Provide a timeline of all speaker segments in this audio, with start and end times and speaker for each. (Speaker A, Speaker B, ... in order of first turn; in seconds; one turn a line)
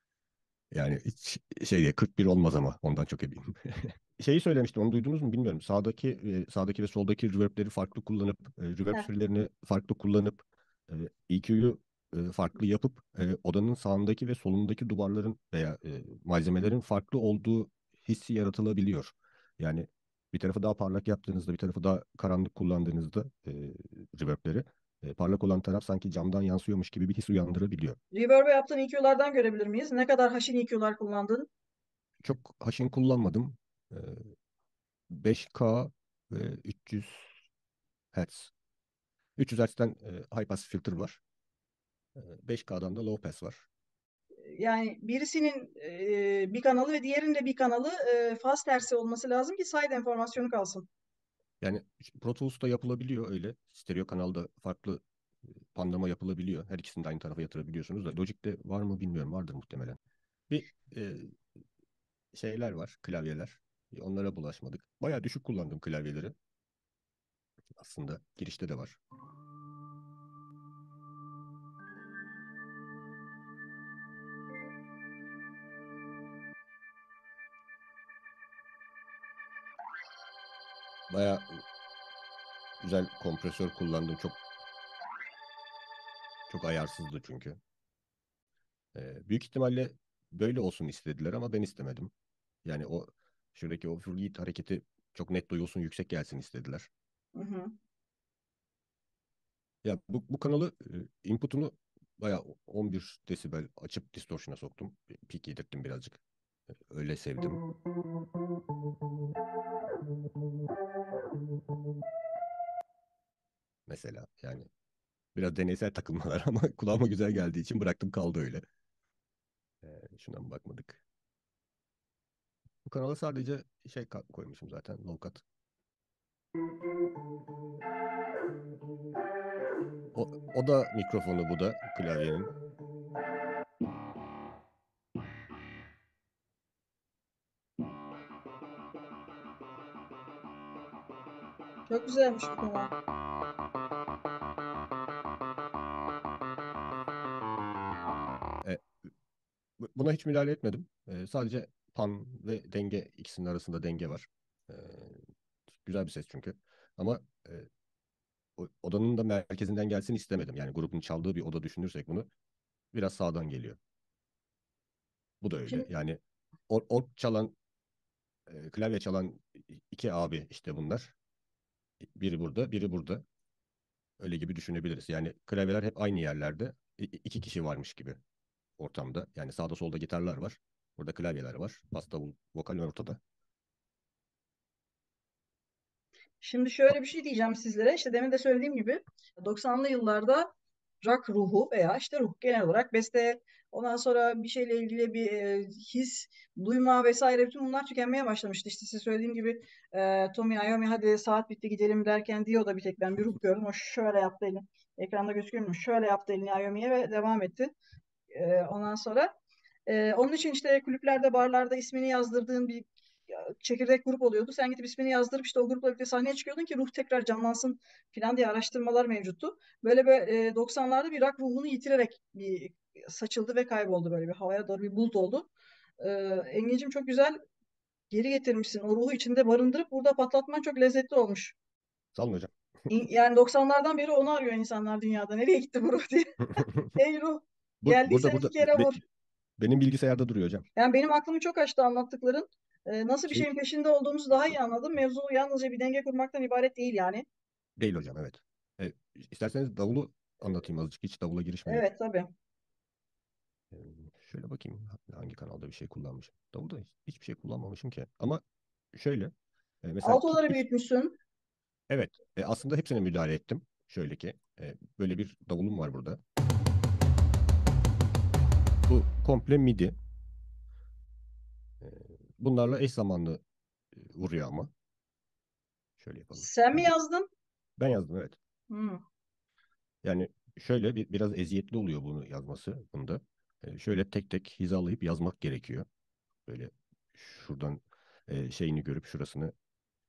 Speaker A: 0.7-28.0
Speaker B: 28.1-31.5
Speaker A: 32.2-34.3
Speaker A: 35.1-37.3
Speaker A: 38.1-38.5
Speaker A: 39.4-41.2
Speaker A: 42.1-43.6
Speaker B: 44.5-50.9
Speaker A: 51.6-55.0
Speaker A: 55.7-60.0
Speaker A: 60.5-61.3
Speaker A: 62.3-66.3
Speaker A: 67.8-69.0
Speaker A: 81.1-81.6
Speaker A: 82.8-84.4
Speaker A: 86.5-87.6
Speaker A: 89.0-92.1
Speaker A: 92.6-96.9
Speaker B: 97.3-97.7
Speaker A: 99.8-106.2
Speaker A: 106.9-107.6
Speaker A: 113.9-114.7
Speaker A: 115.3-118.6
Speaker A: 119.8-121.0
Speaker A: 122.9-125.4
Speaker A: 130.1-132.5
Speaker B: 141.9-142.9
Speaker A: 149.8-155.2
Speaker A: 155.8-157.7
Speaker A: 158.6-162.3
Speaker A: 162.9-163.8
Speaker A: 165.4-167.6
Speaker A: 168.5-171.1
Speaker A: 172.0-173.2
Speaker A: 174.2-178.2
Speaker A: 178.8-183.2
Speaker B: 186.4-190.5
Speaker B: 191.0-207.7
Speaker B: 208.3-209.3
Speaker B: 209.9-225.5
Speaker B: 226.0-227.4
Speaker B: 228.1-231.6
Speaker A: 232.1-232.5
Speaker B: 232.9-239.0
Speaker A: 236.6-236.9
Speaker A: 237.8-238.9
Speaker A: 239.6-240.6
Speaker B: 240.8-247.2
Speaker A: 247.8-251.8
Speaker B: 251.7-252.3
Speaker A: 253.7-258.4
Speaker A: 258.9-259.3
Speaker A: 259.8-260.6
Speaker B: 260.0-261.2
Speaker A: 261.9-266.2
Speaker A: 268.9-269.9
Speaker A: 271.8-273.4
Speaker A: 273.9-274.7
Speaker A: 276.0-276.8
Speaker B: 276.4-277.3
Speaker A: 277.8-278.4
Speaker B: 278.7-279.0
Speaker A: 280.0-285.9
Speaker A: 286.5-289.5